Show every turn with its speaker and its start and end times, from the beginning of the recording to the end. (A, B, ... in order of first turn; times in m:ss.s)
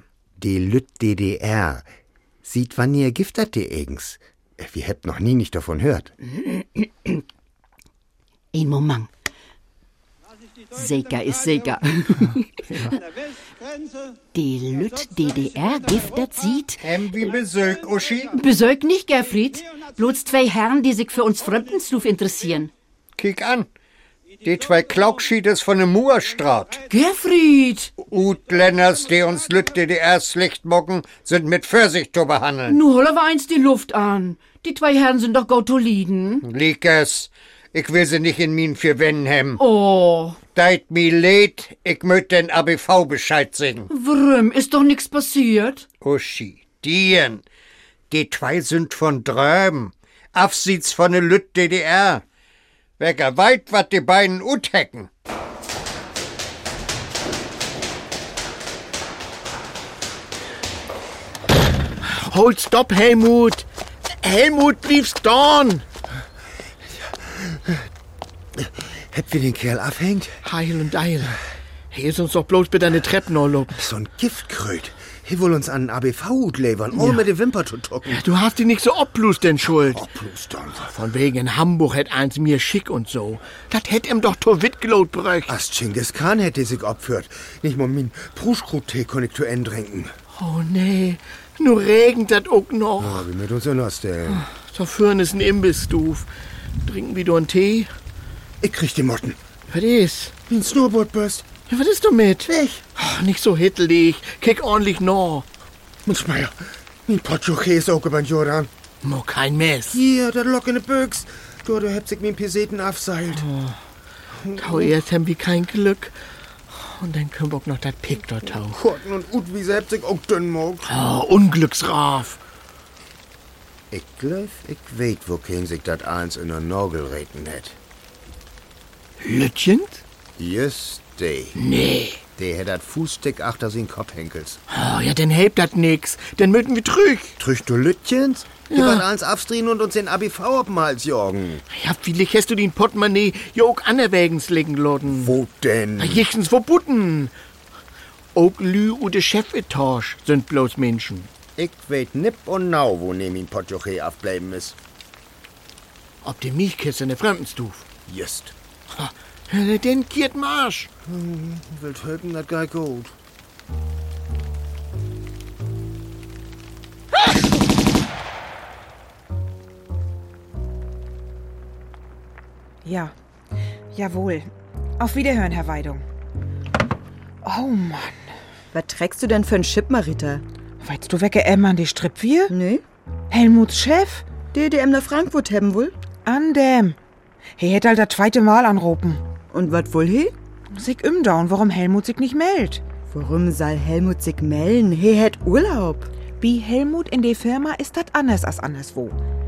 0:00.4-0:01.9 A
0:02.4-0:06.1 A
0:06.2-0:07.2 B
0:08.5-0:09.1 B
0:10.7-0:12.5 B
0:14.3-0:16.8 B
0:16.8-0:18.3 C
0:18.3-0:22.7 B
0:23.2-0:23.7 C
0:24.4-0:26.8 C
0:26.9-0:27.9 B
0:28.0-0:32.8 C
0:32.7-0:36.5 B
0:36.4-0:39.6 C
0:39.6-0:40.4 B
0:40.5-0:43.9 C
0:43.9-0:45.9 B
0:46.0-0:47.4 C
0:48.1-0:52.2 C
0:53.0-0:55.1 C
1:02.0-1:03.7 D
1:04.2-1:05.8 D
1:06.9-1:07.8 A
1:08.6-1:10.4 A
1:10.4-1:11.4 D
1:11.9-1:13.8 D
1:13.8-1:18.2 A
1:17.0-1:17.2 D
1:18.1-1:20.0 D
1:19.8-1:20.9 A
1:20.9-1:25.5 D
1:25.5-1:30.1 A
1:30.3-1:33.3 D
1:33.0-1:34.5 A
1:34.3-1:36.3 D
1:36.8-1:37.9 D
1:38.6-1:39.4 A
1:39.7-1:40.3 D
1:40.5-1:41.5 A
1:41.7-1:45.5 D
1:42.5-1:42.8 A
1:46.1-1:48.7 A
1:49.0-1:50.0 D
1:49.9-1:53.5 A
1:53.3-1:53.8 D
1:54.4-1:54.9 A
1:54.5-1:58.8 D
1:58.7-2:00.9 A
2:00.9-2:02.4 D
2:03.9-2:07.8 A
2:09.2-2:10.0 D
2:10.4-2:11.6 A
2:11.6-2:12.2 D
2:12.4-2:14.6 A
2:14.7-2:17.4 D
2:17.4-2:21.6 A
2:18.7-2:19.0 D
2:21.7-2:25.4 D
2:25.1-2:26.3 A
2:26.0-2:27.3 D
2:28.4-2:31.3 D
2:31.6-2:34.8 A
2:36.2-2:37.9 D
2:38.1-2:38.5 A
2:38.9-2:40.9 D
2:41.1-2:43.2 A
2:52.8-2:53.1 E
2:53.9-2:56.0 E
2:57.4-2:58.2 E
2:58.7-3:00.4 F
3:00.8-3:02.5 E
3:02.5-3:02.8 F
3:03.3-3:04.3 E
3:04.5-3:06.0 F
3:06.2-3:07.0 E
3:07.6-3:09.2 E
3:09.5-3:10.3 F
3:10.8-3:12.8 E
3:13.1-3:16.1 F
3:16.4-3:19.2 E